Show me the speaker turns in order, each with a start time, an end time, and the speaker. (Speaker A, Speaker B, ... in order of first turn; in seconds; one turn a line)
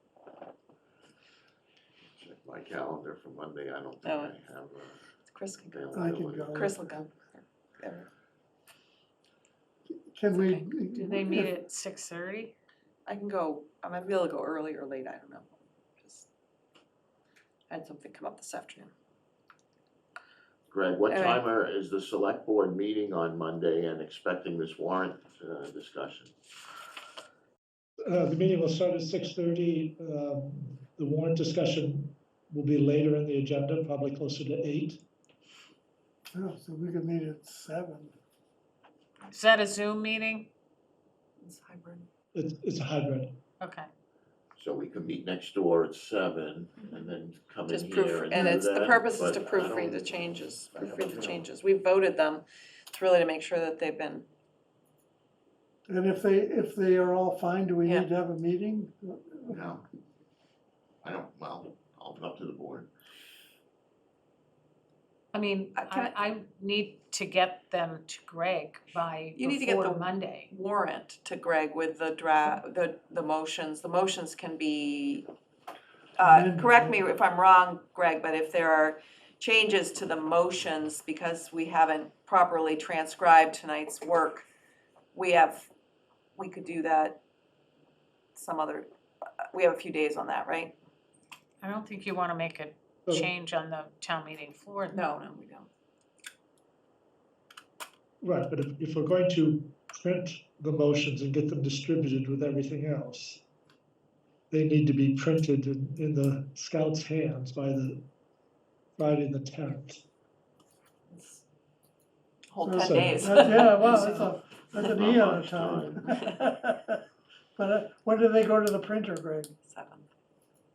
Speaker A: 2.0-5.0
Speaker B: 4.0-4.3
Speaker B: 5.3-5.9
Speaker A: 5.7-6.6
Speaker C: 5.9-7.0
Speaker B: 6.5-8.1
Speaker C: 9.9-11.5
Speaker D: 10.4-12.5
Speaker B: 13.1-16.3
Speaker B: 17.7-18.9
Speaker A: 20.7-26.3
Speaker B: 21.1-21.4
Speaker E: 28.1-35.0
Speaker C: 36.3-38.1
Speaker D: 39.3-40.5
Speaker B: 41.4-42.1
Speaker E: 42.3-43.4
Speaker D: 43.6-43.9
Speaker A: 44.5-51.5
Speaker B: 47.7-54.2
Speaker C: 55.9-59.6
Speaker A: 59.5-59.8
Speaker A: 61.0-62.9
Speaker D: 65.3-70.5
Speaker B: 65.7-66.2
Speaker B: 69.3-75.3
Speaker B: 76.2-84.5
Speaker C: 76.2-77.0
Speaker B: 85.1-85.7
Speaker B: 86.3-87.2
Speaker B: 88.3-88.9
Speaker B: 89.5-90.8
Speaker D: 91.6-95.0
Speaker B: 94.9-95.7
Speaker E: 98.2-103.4
Speaker E: 104.5-108.0
Speaker E: 109.0-110.0
Speaker B: 111.1-111.4
Speaker B: 112.5-114.3
Speaker C: 112.6-117.0
Speaker E: 112.8-113.8
Speaker A: 114.9-116.1
Speaker C: 117.5-119.5
Speaker B: 119.7-120.1